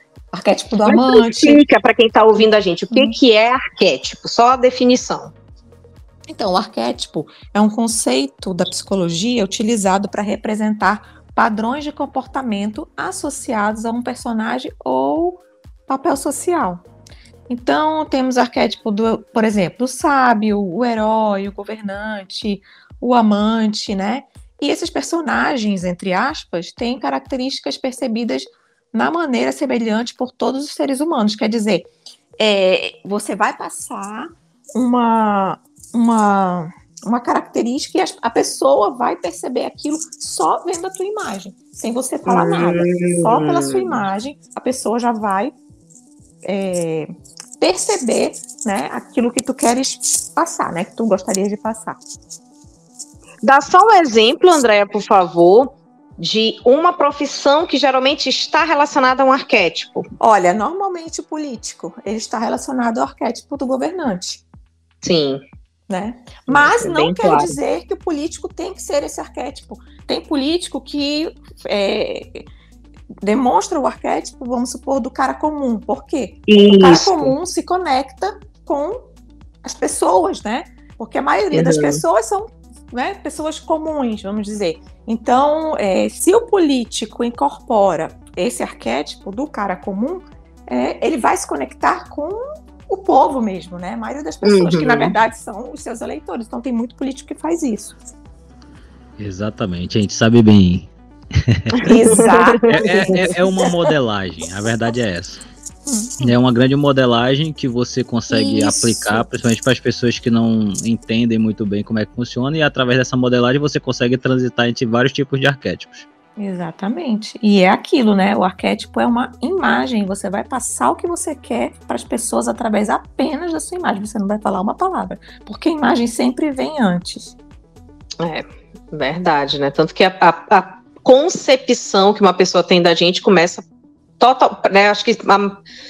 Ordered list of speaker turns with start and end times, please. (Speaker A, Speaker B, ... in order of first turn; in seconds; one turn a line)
Speaker A: 0.3-1.6
Speaker B: 0.9-5.3
Speaker A: 6.3-16.8
Speaker A: 17.5-45.5
Speaker B: 42.3-44.0
Speaker A: 46.5-52.0
Speaker B: 53.4-60.1
Speaker A: 60.2-64.4
Speaker B: 65.0-65.4
Speaker A: 65.9-72.5
Speaker B: 66.5-67.5
Speaker A: 73.2-79.0
Speaker B: 76.5-77.3
Speaker A: 79.6-98.0
Speaker B: 81.5-82.0
Speaker B: 94.4-95.1
Speaker C: 99.2-101.7
Speaker B: 101.8-102.8
Speaker A: 101.8-103.7
Speaker C: 102.6-105.4
Speaker A: 105.9-106.3
Speaker C: 106.2-116.1
Speaker A: 108.3-109.2
Speaker A: 116.4-127.3
Speaker B: 128.2-133.7
Speaker B: 134.2-135.6